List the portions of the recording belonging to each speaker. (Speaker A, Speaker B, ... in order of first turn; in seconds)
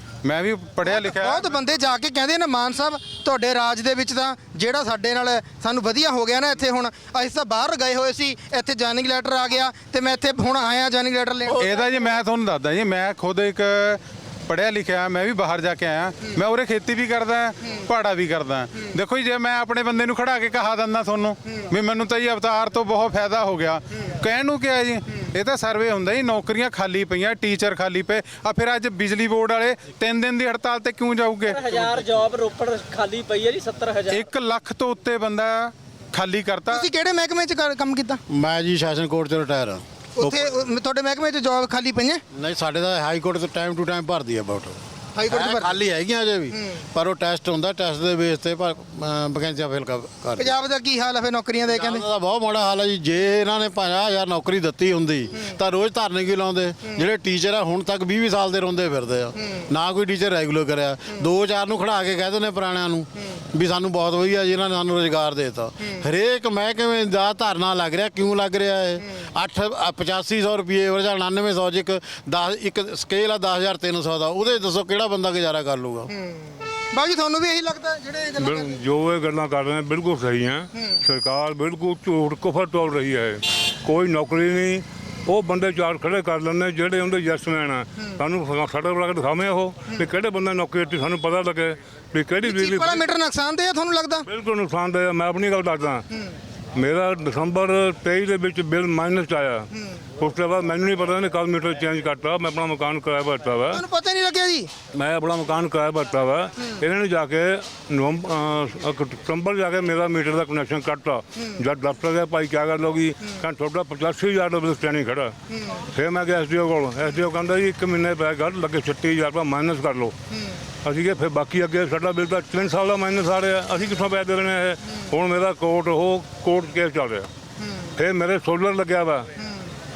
Speaker A: 0.2-1.4, 11.6-31.6, 34.1-36.9
Speaker B: 0.9-11.6, 36.7-38.2, 40.2-42.2, 45.2-45.7, 50.4-52.0, 76.9-78.8, 92.4-94.3, 103.7-104.7
Speaker C: 31.5-34.3
Speaker D: 38.3-40.5, 42.3-50.5, 51.7-76.1
Speaker E: 78.4-93.0, 94.2-96.0, 96.8-99.7, 100.2-103.8, 104.9-115.3, 115.9-120.1, 120.8-127.3, 128.0-129.3